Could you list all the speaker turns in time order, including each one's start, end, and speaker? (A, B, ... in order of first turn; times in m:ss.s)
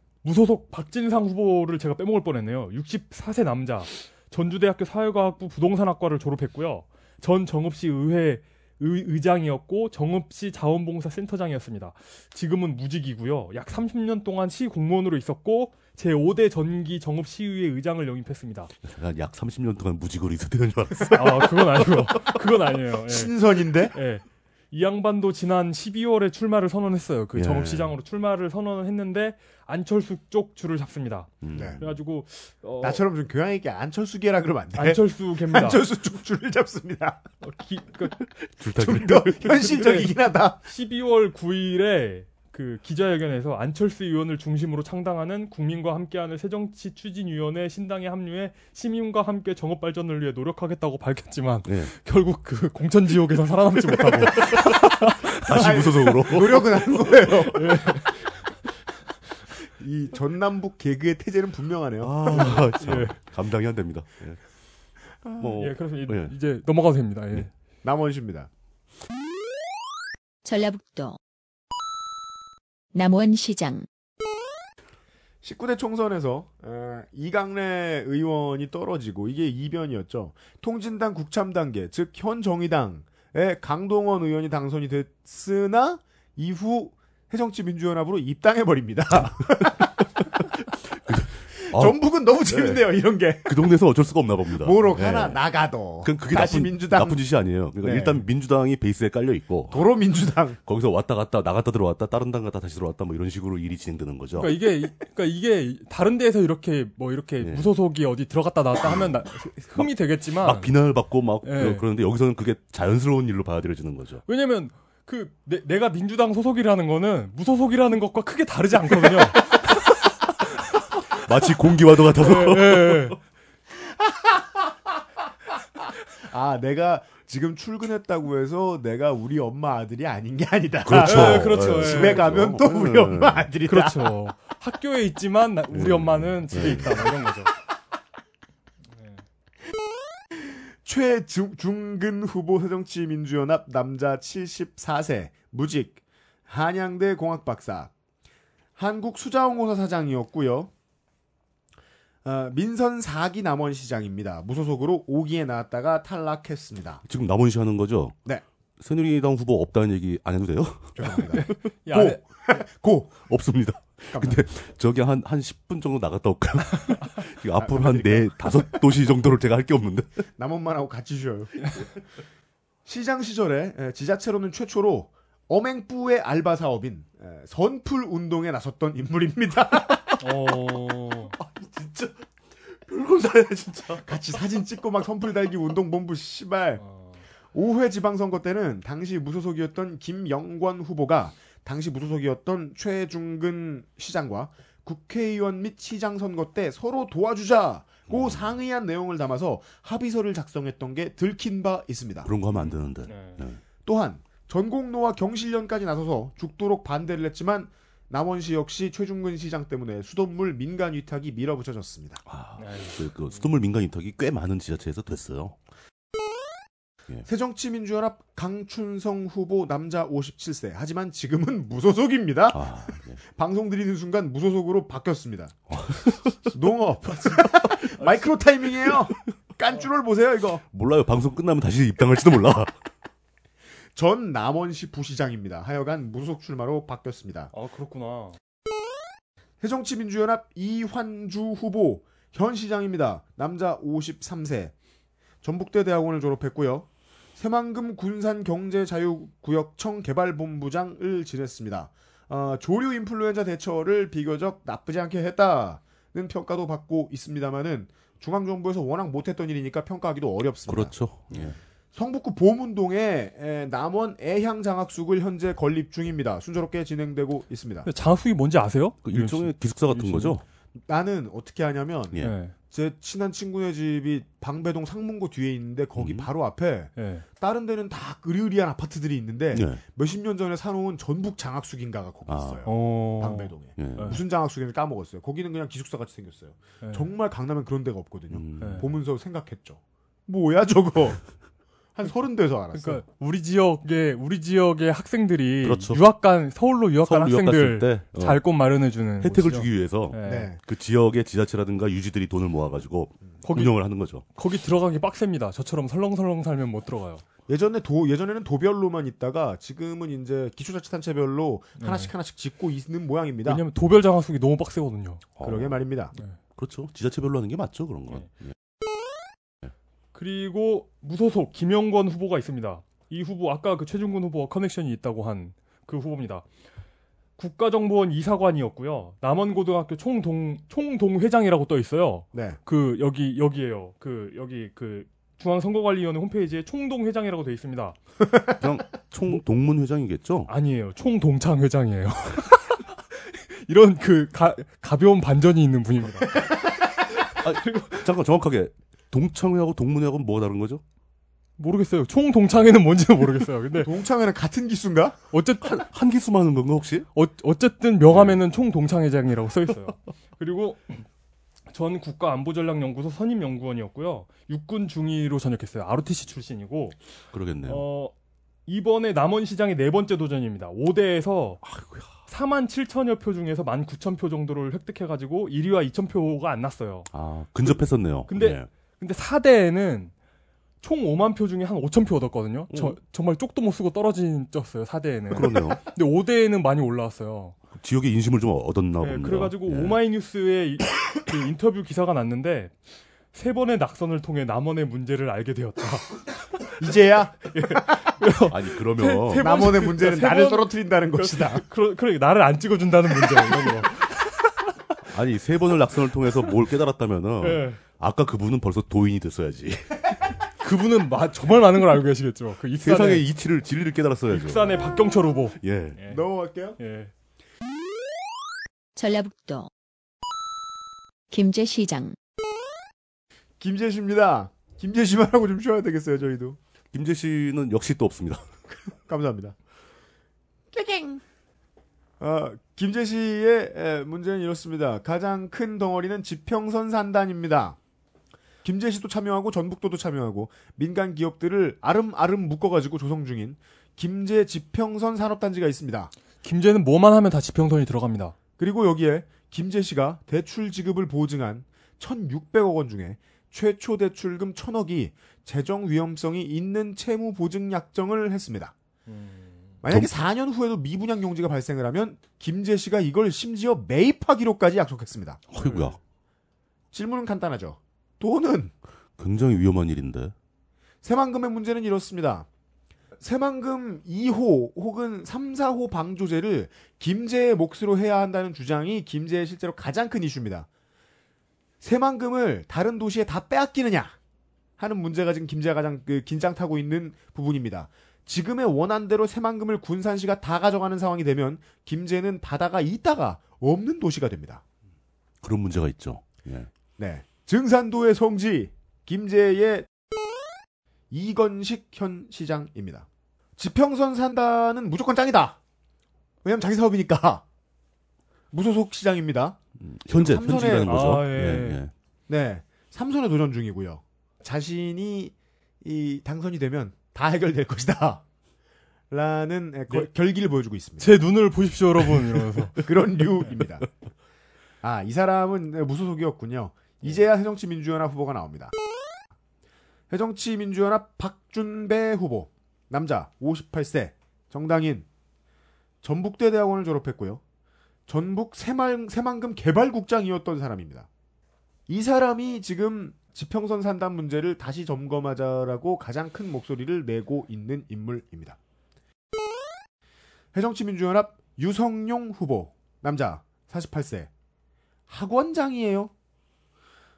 0:00.2-0:18.7 A
0:18.8-0:21.6 B
0:21.1-0:33.0 A
0:23.1-0:23.9 C
0:27.3-0:27.9 B
0:31.4-0:31.9 B
0:31.5-0:31.8 C
0:32.8-0:37.2 C
0:34.7-0:35.8 A
0:37.4-0:38.1 A
0:38.6-0:39.4 B
0:38.8-0:40.6 C
0:39.4-0:55.7 A
0:51.6-0:51.9 B
0:54.1-0:54.9 B
0:55.4-0:56.8 B
0:55.5-0:57.9 C
0:57.5-0:58.5 A
0:59.6-1:02.6 C
1:02.0-1:04.4 B
1:02.3-1:03.2 A
1:05.2-1:05.6 C
1:05.4-1:06.3 B
1:05.6-1:07.5 A
1:07.8-1:08.5 C
1:10.4-1:11.2 D
1:12.9-1:13.8 D
1:15.4-1:29.9 C
1:30.9-1:32.8 B
1:31.6-1:33.7 C
1:33.4-1:35.4 B
1:34.6-1:37.2 C
1:36.0-1:39.9 B
1:37.8-1:38.2 C
1:39.7-1:40.6 C
1:40.6-1:44.6 B
1:44.4-1:50.7 A
1:47.4-1:47.7 B
1:48.8-1:49.2 B
1:49.7-1:54.2 B
1:51.4-1:51.8 A
1:54.3-1:59.4 A
1:59.4-2:00.1 B
2:01.1-2:03.2 B
2:02.2-2:03.2 A
2:04.1-2:04.4 C
2:06.2-2:14.2 C
2:10.8-2:13.5 B
2:11.0-2:12.3 A
2:13.6-2:17.5 A
2:15.7-2:17.1 B
2:20.4-2:27.9 C
2:28.8-2:30.7 C
2:32.2-2:37.0 C
2:37.1-2:38.2 B
2:38.8-2:41.5 B
2:41.0-2:43.3 C
2:41.3-2:42.2 A
2:43.3-2:50.2 B
2:44.1-2:44.4 C
2:47.6-2:48.7 C
2:50.4-2:51.9 C
2:52.8-3:00.2 C
3:00.2-3:01.3 A
3:01.5-3:02.1 B
3:02.9-3:04.0 B
3:03.9-3:06.8 C
3:06.8-3:07.2 A
3:07.5-3:22.3 C
3:18.1-3:18.5 B
3:22.2-3:23.6 B
3:22.6-3:23.4 A
3:23.8-3:32.2 C
3:32.2-3:35.6 B
3:32.6-3:33.5 A
3:37.2-3:45.7 C
3:42.5-3:43.2 B
3:45.7-3:46.6 B
3:46.5-3:50.6 C
3:48.0-3:48.3 A
3:50.7-3:52.7 B
3:53.9-3:57.5 C
3:57.5-3:58.4 A
3:59.6-4:04.7 C
4:05.4-4:20.9 C
4:20.7-4:21.6 B
4:21.3-4:21.6 A
4:21.9-4:27.9 C
4:27.8-4:30.4 A
4:29.0-4:30.4 B
4:30.9-4:51.2 C
4:32.2-4:32.5 A
4:36.0-4:36.3 B
4:37.0-4:37.2 A
4:39.5-4:39.8 B
4:42.3-4:42.6 B
4:42.6-4:44.2 A
4:43.8-4:44.2 B
4:46.8-4:47.1 A
4:48.3-4:48.9 B
4:48.6-4:48.9 A
4:51.9-4:53.0 C
4:52.7-5:00.5 A
4:55.6-4:56.0 B
4:57.0-4:58.4 B
4:59.2-5:04.2 B
5:00.2-5:00.6 C
5:03.4-5:03.8 A
5:04.3-5:07.2 A
5:07.5-5:13.6 C
5:11.8-5:12.1 A
5:13.4-5:15.2 A
5:15.4-5:15.8 B
5:15.4-5:16.1 C
5:16.6-5:18.5 B
5:20.1-5:26.4 A
5:27.4-5:38.0 A
5:32.3-5:32.6 C
5:38.5-5:40.5 B
5:40.5-5:46.4 A
5:47.3-5:48.0 A
5:47.3-5:50.8 B
5:51.6-5:53.9 A
5:53.8-5:55.2 C
5:55.3-5:55.8 A
5:55.6-5:57.1 B
5:57.1-6:01.1 A
5:58.1-5:58.4 B
6:01.7-6:07.0 A
6:07.3-6:07.8 B
6:07.6-6:08.1 A
6:08.7-6:11.6 A
6:11.6-6:12.1 B
6:12.3-6:17.1 A
6:17.1-6:18.7 B
6:17.6-6:20.1 A
6:20.8-6:27.6 A
6:22.7-6:23.0 B
6:25.3-6:25.8 B
6:27.7-6:30.0 B
6:29.0-6:32.7 A
6:33.3-6:36.7 A
6:36.8-6:38.1 C
6:37.4-6:44.4 A
6:38.5-6:39.6 B
6:39.4-6:41.6 C
6:45.1-6:50.2 B
6:47.4-6:47.8 A
6:50.6-6:53.2 A
6:52.8-6:55.0 B
6:54.3-6:56.2 A
6:55.6-6:56.0 B
6:56.1-6:56.8 C
6:56.8-6:57.1 A
6:59.0-6:59.7 D
7:01.3-7:02.2 D
7:03.6-7:06.6 C
7:06.9-7:08.4 B
7:09.0-7:09.5 C
7:10.7-7:11.2 C
7:12.2-7:17.8 C
7:18.6-7:26.1 C
7:26.4-7:28.3 A
7:28.6-7:38.7 C
7:39.1-7:39.8 A
7:39.8-7:45.4 C
7:45.5-7:46.0 B
7:45.6-7:46.0 A
7:46.9-7:48.7 C
7:49.2-7:50.3 B
7:51.0-7:52.5 C
7:53.2-8:00.7 C
8:01.8-8:04.2 C
8:04.8-8:14.6 C
8:15.4-8:16.7 B
8:17.0-8:19.9 C
8:21.1-8:25.6 C
8:26.4-8:27.4 C
8:28.5-8:31.1 C
8:29.8-8:31.9 B
8:30.8-8:31.8 A
8:32.3-8:38.2 C
8:39.1-8:41.2 C
8:41.0-8:42.8 A
8:42.8-8:43.8 C
8:44.8-8:48.7 C
8:50.1-8:55.0 C
8:56.0-8:57.4 C
8:58.1-9:01.1 C
9:01.9-9:08.6 C
9:10.5-9:14.3 C
9:15.1-9:16.1 C